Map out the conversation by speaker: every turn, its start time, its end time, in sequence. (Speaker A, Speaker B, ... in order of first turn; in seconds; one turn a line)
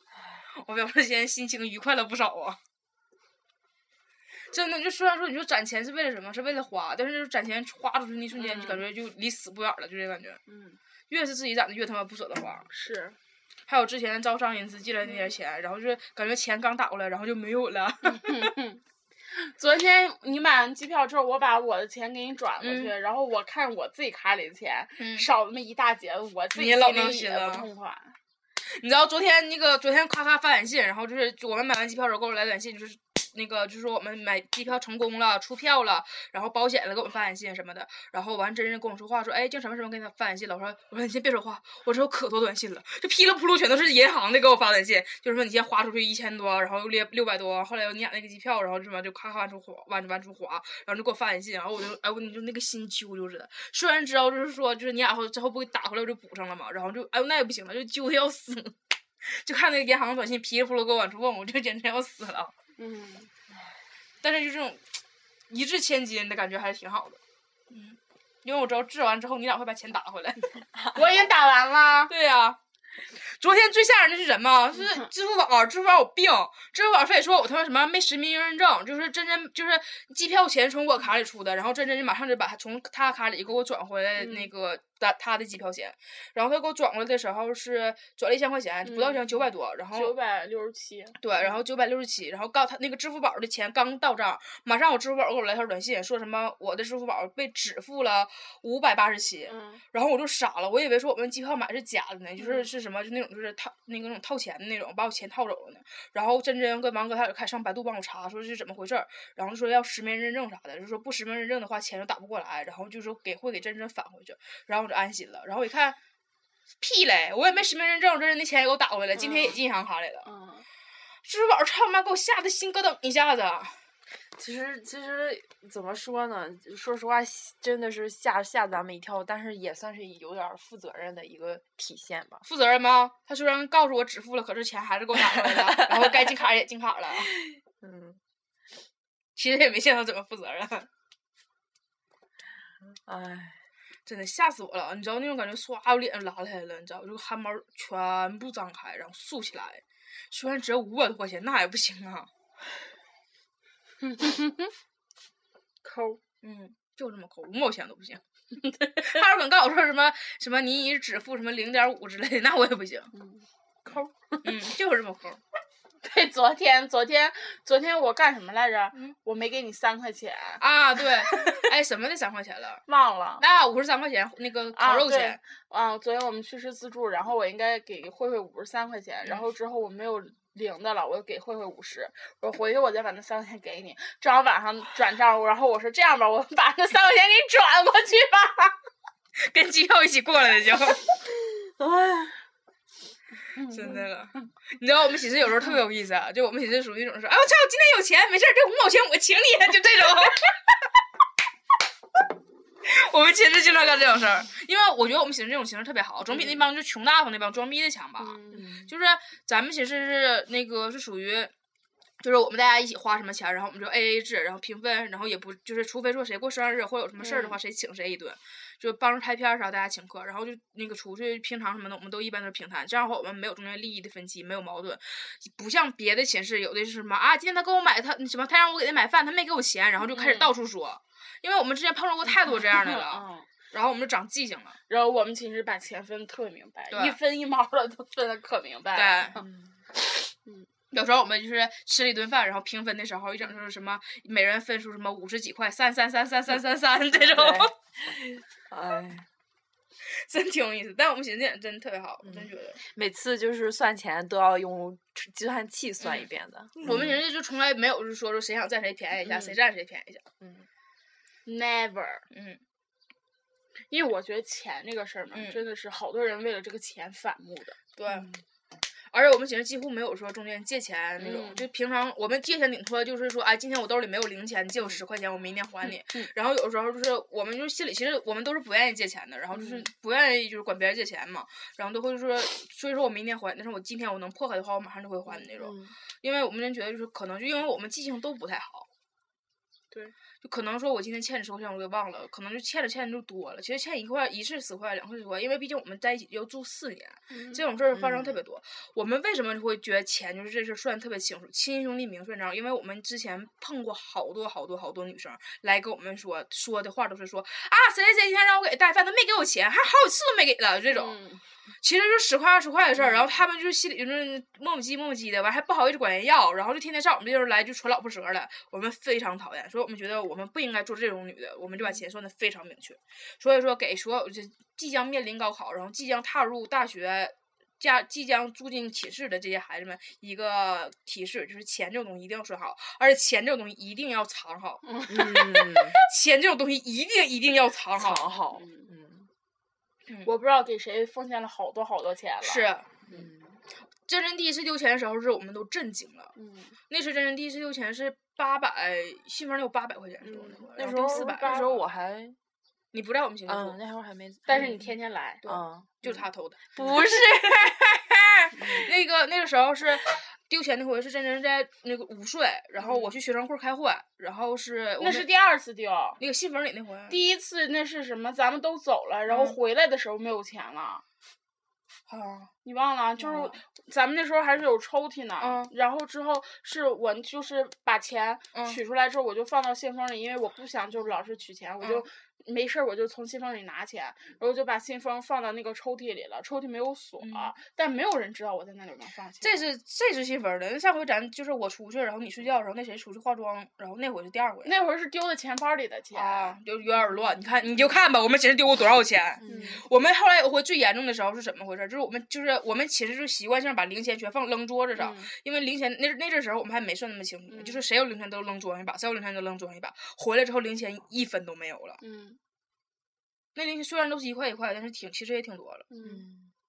Speaker A: 0.6-2.6
Speaker A: 4.5-10.4
Speaker B: 8.3-8.8
Speaker B: 10.5-10.8
Speaker A: 11.1-12.7
Speaker B: 12.7-13.2
Speaker A: 13.7-18.5
Speaker B: 18.0-28.1
Speaker A: 22.6-22.9
Speaker A: 25.0-25.3
Speaker A: 26.6-27.7
Speaker A: 28.6-62.5
Speaker B: 62.8-63.3
Speaker A: 64.2-64.8
Speaker A: 65.5-67.2
Speaker A: 67.7-70.6
Speaker B: 70.9-72.1
Speaker A: 72.1-72.6
Speaker A: 73.2-90.2
Speaker B: 84.2-84.5
Speaker B: 88.8-91.6
Speaker A: 91.2-116.0
Speaker B: 99.5-99.8
Speaker B: 102.4-102.7
Speaker A: 116.8-120.3
Speaker B: 119.2-119.6
Speaker B: 120.2-120.7
Speaker A: 121.2-123.8
Speaker C: 124.3-132.4
Speaker A: 132.4-137.3
Speaker C: 135.2-136.3
Speaker C: 137.3-138.2
Speaker A: 139.4-140.9
Speaker C: 142.9-143.6
Speaker A: 144.1-152.3
Speaker B: 154.0-154.7
Speaker B: 155.8-156.2
Speaker A: 156.4-158.2
Speaker A: 158.8-163.1
Speaker B: 163.1-163.5
Speaker A: 164.4-165.4
Speaker B: 166.0-170.6
Speaker A: 170.6-172.8
Speaker B: 172.9-173.4
Speaker A: 173.4-175.4
Speaker B: 174.8-188.8
Speaker A: 189.4-191.0
Speaker C: 191.3-192.4
Speaker B: 193.6-194.1
Speaker A: 193.7-200.7
Speaker A: 202.8-211.5
Speaker B: 206.3-206.6
Speaker B: 208.2-208.7
Speaker C: 208.5-208.9
Speaker A: 212.2-234.8
Speaker B: 217.2-217.6
Speaker B: 230.1-230.5
Speaker B: 232.4-233.5
Speaker B: 234.9-239.4
Speaker A: 236.9-237.2
Speaker A: 238.9-239.4
Speaker C: 239.4-239.8
Speaker A: 240.9-247.7
Speaker C: 247.2-249.3
Speaker A: 250.1-252.8
Speaker C: 252.2-257.2
Speaker A: 256.0-256.3
Speaker A: 256.8-260.2
Speaker C: 260.4-260.7
Speaker B: 261.5-262.3
Speaker A: 262.3-262.6
Speaker B: 263.9-267.8
Speaker A: 265.3-265.6
Speaker A: 268.0-268.3
Speaker C: 268.1-268.4
Speaker A: 269.1-288.9
Speaker B: 271.2-271.7
Speaker B: 275.9-276.3
Speaker B: 279.5-279.9
Speaker C: 285.6-286.0
Speaker A: 290.4-311.2
Speaker B: 297.3-297.6
Speaker C: 297.9-298.4
Speaker B: 310.9-311.4
Speaker A: 311.8-338.3
Speaker B: 334.9-335.3
Speaker C: 335.1-336.0
Speaker C: 338.0-339.3
Speaker B: 338.6-338.9
Speaker B: 340.2-342.7
Speaker A: 342.4-342.9
Speaker C: 343.1-343.6
Speaker A: 344.1-346.3
Speaker B: 346.4-346.8
Speaker A: 346.9-351.8
Speaker B: 350.2-351.8
Speaker C: 350.8-352.4
Speaker A: 352.9-353.8
Speaker C: 353.5-354.8
Speaker B: 354.5-355.6
Speaker C: 355.4-356.2
Speaker A: 355.5-365.3
Speaker C: 356.8-357.7
Speaker B: 358.5-358.9
Speaker B: 362.8-363.1
Speaker B: 365.0-366.2
Speaker A: 366.2-367.2
Speaker B: 367.1-371.0
Speaker A: 369.3-369.6
Speaker A: 372.1-372.5
Speaker B: 372.6-389.6
Speaker A: 373.2-373.6
Speaker A: 375.4-375.7
Speaker A: 378.5-378.8
Speaker A: 381.8-382.1
Speaker A: 387.2-387.5
Speaker A: 389.4-394.8
Speaker B: 394.6-397.2
Speaker A: 396.1-412.0
Speaker C: 399.4-399.7
Speaker B: 399.4-399.9
Speaker B: 405.0-405.3
Speaker B: 407.5-407.8
Speaker B: 412.0-412.4
Speaker A: 413.6-415.9
Speaker B: 415.9-416.2
Speaker C: 416.0-416.5